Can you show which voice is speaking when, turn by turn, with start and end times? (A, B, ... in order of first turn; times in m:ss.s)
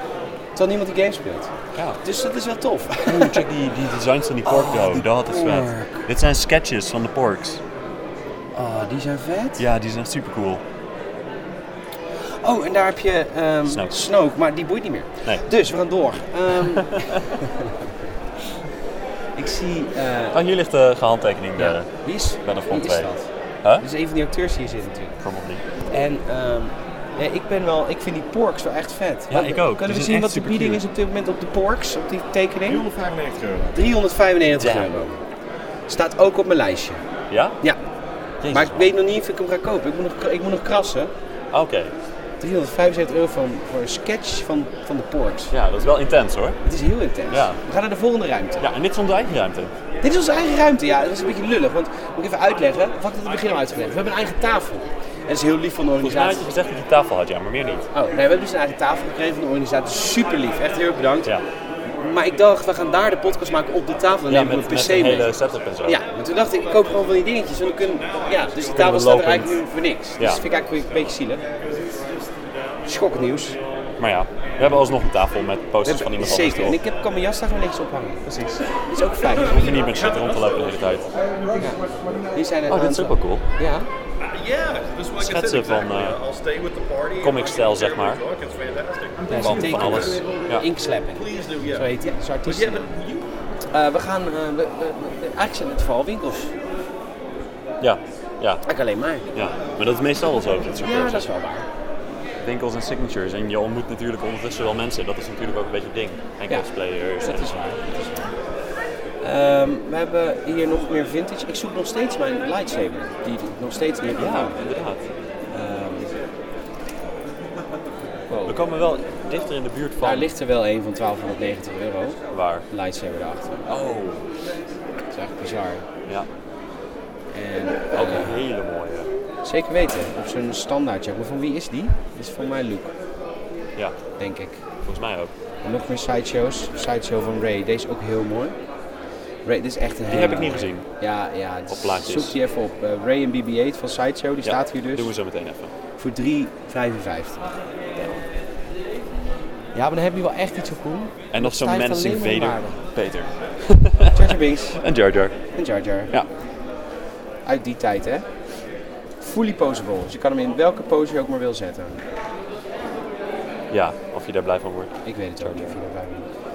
0:00.5-0:01.5 A
0:01.7-0:02.0 B
0:02.0-0:03.4 A
0:03.0-0:07.6 B
0:04.4-0:06.1 A
0:08.5-0:09.6 A
0:09.6-0:10.6 B
0:12.2-0:17.7 A
0:13.6-0:14.0 B
0:16.6-0:17.3 B
0:19.4-0:20.4 A
0:20.3-0:23.1 B
0:21.6-0:23.3 A
0:23.8-0:25.2 A
0:25.2-0:25.6 B
0:25.9-0:32.8 A
0:29.3-0:30.8 B
0:32.6-0:33.9 C
0:33.7-0:35.2 A
0:34.6-0:34.9 B
0:35.9-0:37.0 A
0:37.3-0:37.6 B
0:38.4-0:38.9 B
0:38.5-0:41.1 A
0:41.5-0:41.9 B
0:42.4-0:45.5 A
0:45.5-0:46.6 B
0:46.6-0:48.6 A
0:47.3-0:47.6 B
0:48.6-0:49.7 B
0:50.0-0:56.5 A
0:56.0-0:57.9 B
0:57.9-1:01.3 A
1:01.8-1:11.4 A
1:04.3-1:06.0 B
1:08.6-1:09.6 B
1:10.2-1:10.4 B
1:12.8-1:13.6 A
1:14.0-1:16.8 B
1:15.8-1:19.7 A
1:19.3-1:21.1 C
1:19.4-1:21.1 B
1:21.6-1:23.9 A
1:22.7-1:23.4 B
1:24.2-1:30.4 C
1:25.2-1:26.2 B
1:27.2-1:28.2 B
1:29.3-1:32.9 A
1:29.3-1:30.6 B
1:31.1-1:33.3 C
1:33.7-1:36.5 A
1:37.8-1:38.6 B
1:38.6-1:39.3 A
1:39.3-1:41.3 B
1:40.7-1:41.6 A
1:42.4-1:47.6 B
1:46.5-1:48.3 A
1:49.2-1:54.6 A
1:54.2-1:55.0 B
1:55.5-1:56.1 A
1:58.3-1:58.6 A
1:58.4-2:00.3 B
2:00.0-2:03.7 A
2:02.3-2:02.6 B
2:03.7-2:04.3 B
2:05.1-2:05.8 A
2:07.3-2:08.4 A
2:07.9-2:09.1 B
2:09.4-2:12.9 A
2:14.2-2:14.6 A
2:14.8-2:15.3 B
2:15.6-2:18.6 A
2:19.4-2:25.1 A
2:20.1-2:20.9 B
2:21.7-2:22.4 B
2:24.4-2:25.7 B
2:26.0-2:27.5 A
2:29.7-2:32.8 A
2:31.3-2:35.4 B
2:34.1-2:34.8 A
2:35.5-2:36.1 A
2:37.4-2:38.3 A
2:39.2-2:42.0 A
2:43.7-2:45.8 B
2:45.0-2:46.3 A